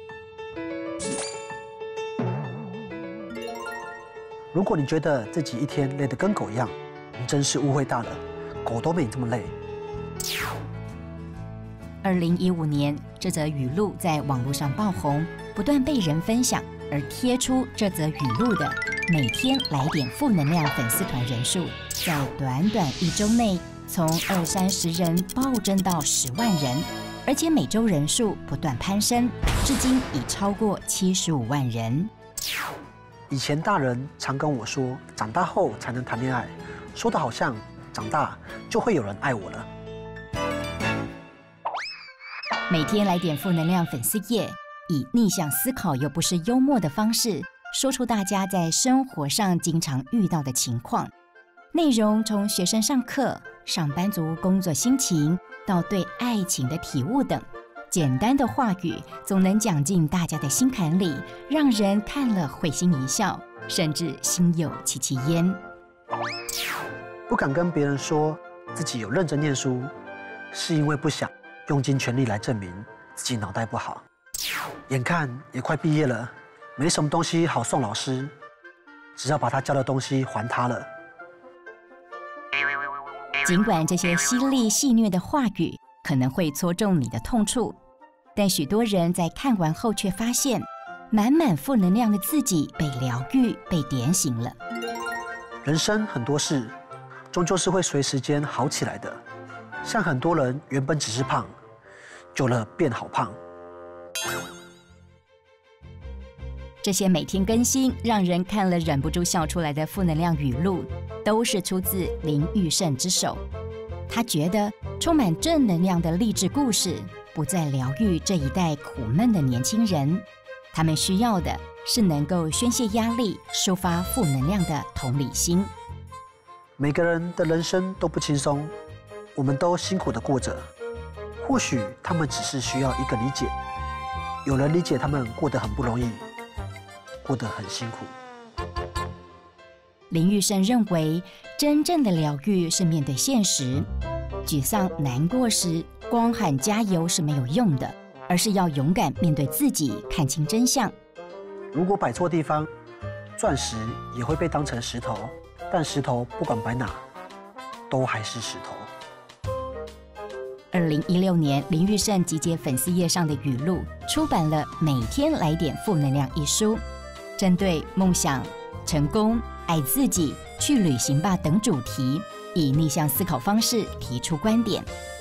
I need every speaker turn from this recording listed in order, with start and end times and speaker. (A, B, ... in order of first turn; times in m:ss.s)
0:04.5-0:09.5 A
0:12.0-0:32.1 B
0:33.3-0:39.7 A
0:42.7-0:51.1 B
0:51.7-1:05.6 B
1:07.3-1:09.9 A
1:10.5-1:14.0 A
1:14.9-1:18.3 A
1:19.2-1:20.9 A
1:23.4-1:27.8 B
1:28.4-1:34.6 B
1:35.6-1:36.8 A
1:37.3-1:39.2 A
1:39.8-1:41.5 A
1:42.3-1:43.4 A
1:46.8-1:53.4 B
1:54.1-2:05.7 B
2:06.8-2:08.7 A
2:09.4-2:10.7 A
2:11.4-2:13.5 A
2:14.4-2:16.2 A
2:17.2-2:18.2 A
2:20.1-2:23.9 B
2:24.4-2:30.9 B
2:31.7-2:32.7 A
2:33.4-2:37.0 A
2:37.9-2:38.9 A
2:40.7-2:46.8 B
2:47.4-2:54.9 B